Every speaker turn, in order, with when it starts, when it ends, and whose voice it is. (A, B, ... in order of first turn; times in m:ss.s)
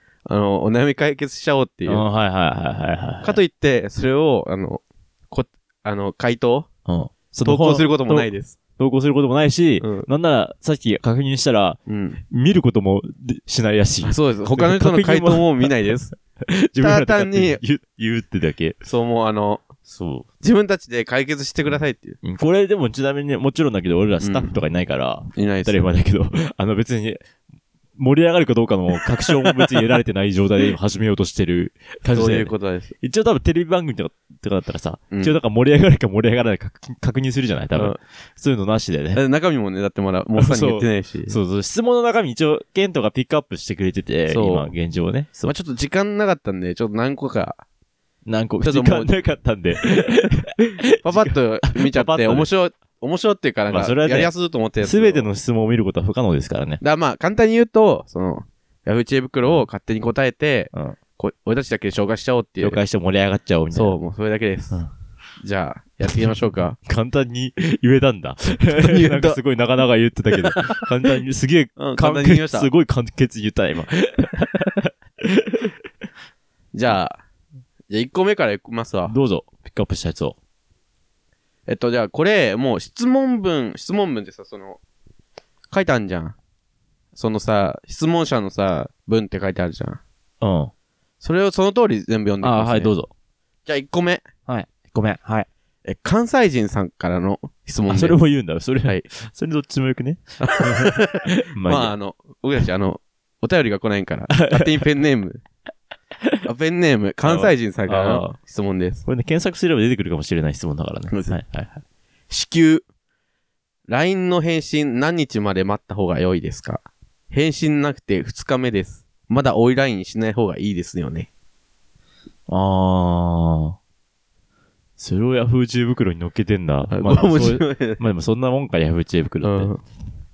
0:00.3-0:02.0 A
0:01.9-0:03.4 B
0:03.2-0:06.7 A
0:06.9-0:11.8 B
0:07.4-0:08.6 A
0:09.8-0:10.1 A
0:11.9-0:12.2 A
0:12.3-0:18.8 B
0:14.0-0:16.1 A
0:16.8-0:17.6 A
0:18.8-0:19.6 A
0:19.9-0:20.3 B
0:20.4-0:22.2 A
0:22.2-0:27.2 B
0:24.2-0:24.6 A
0:25.4-0:25.9 A
0:28.0-0:39.2 B
0:29.3-0:29.7 A
0:32.1-0:32.9 A
0:39.2-0:41.4 A
0:40.4-0:45.5 B
0:44.3-0:44.7 A
0:45.4-0:47.6 A
0:48.3-0:52.5 B
0:48.6-0:49.1 A
0:51.0-0:55.3 A
0:53.7-0:54.3 B
0:54.8-0:56.8 B
0:56.8-1:02.8 A
1:00.7-1:01.0 B
1:02.6-1:04.0 B
1:03.7-1:04.8 A
1:05.4-1:06.8 A
1:06.8-1:15.7 B
1:08.7-1:09.4 A
1:11.8-1:12.7 A
1:16.7-1:17.2 A
1:17.9-1:19.1 A
1:19.1-1:20.4 B
1:21.7-1:24.8 A
1:25.7-1:26.4 A
1:27.2-1:30.0 A
1:30.4-1:30.7 B
1:31.2-1:32.9 A
1:32.4-1:33.1 B
1:33.7-1:34.3 A
1:34.5-1:35.5 B
1:35.8-1:38.2 A
1:37.9-1:42.0 B
1:40.4-1:45.4 A
1:44.3-1:44.9 B
1:46.4-1:49.0 A
1:47.2-1:48.4 B
1:49.0-1:51.8 B
1:51.1-1:51.4 A
1:52.3-1:52.9 A
1:53.9-2:01.3 A
2:02.5-2:03.8 B
2:05.0-2:09.7 B
2:06.9-2:08.0 A
2:09.4-2:09.8 A